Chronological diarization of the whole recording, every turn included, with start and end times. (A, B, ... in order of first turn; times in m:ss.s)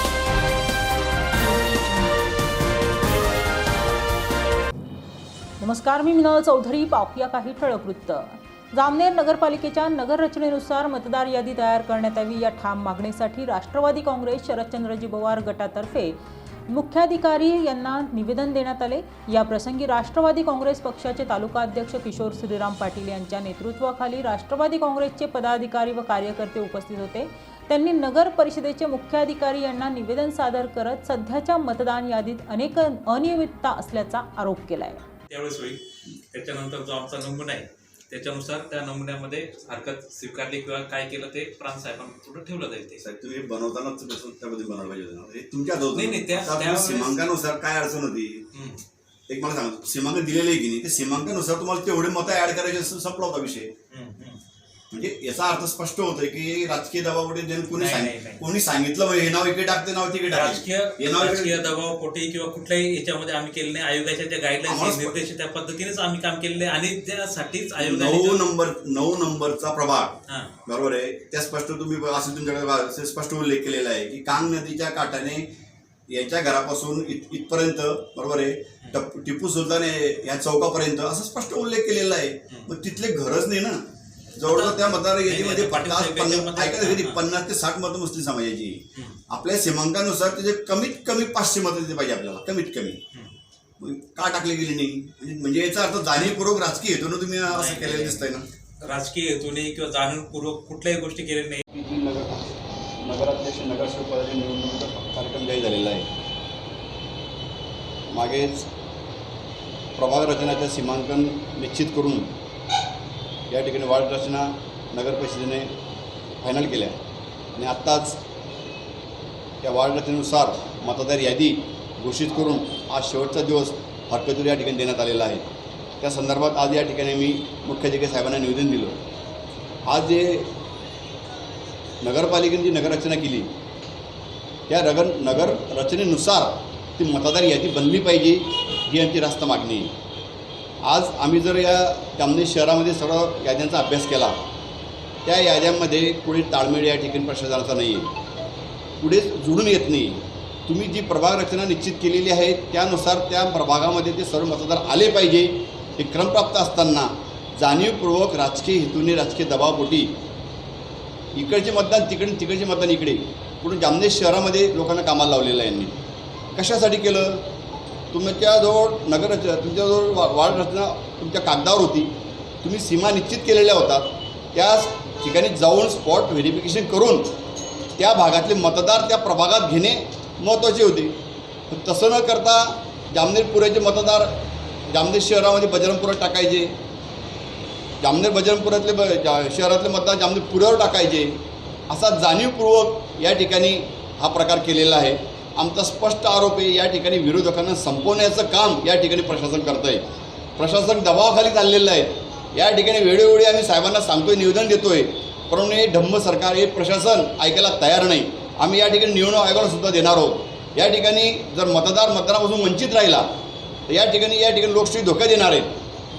0:05.6-0:35.0 A
0:35.3-0:43.0 B
0:43.0-0:48.5 C
0:45.9-0:47.2 B
0:48.5-0:48.8 B
0:49.3-0:53.7 C
0:53.9-0:54.4 B
0:54.9-1:01.5 C
0:57.8-0:58.4 B
1:00.3-1:08.4 B
1:04.6-1:05.2 C
1:07.8-1:15.5 C
1:16.1-1:23.8 C
1:24.3-1:33.0 C
1:24.4-1:27.2 B
1:33.8-1:38.4 C
1:37.5-1:38.3 B
1:38.8-1:41.6 B
1:41.7-1:42.5 C
1:43.0-1:46.1 C
1:48.1-1:48.7 C
1:50.0-1:52.3 C
1:53.5-1:55.7 C
1:56.4-1:57.0 C
1:57.6-1:58.2 C
1:59.6-2:05.5 C
2:06.0-2:09.0 C
2:09.9-2:10.5 C
2:12.0-2:13.5 C
2:14.7-2:19.9 C
2:20.8-2:24.4 C
2:25.2-2:28.1 C
2:29.0-2:40.2 C
2:41.3-2:46.0 C
2:46.5-2:47.5 C
2:48.1-2:57.3 C
2:58.0-3:01.2 C
3:01.7-3:06.7 C
3:08.0-3:20.0 C
3:20.6-3:33.2 C
3:33.9-3:35.8 C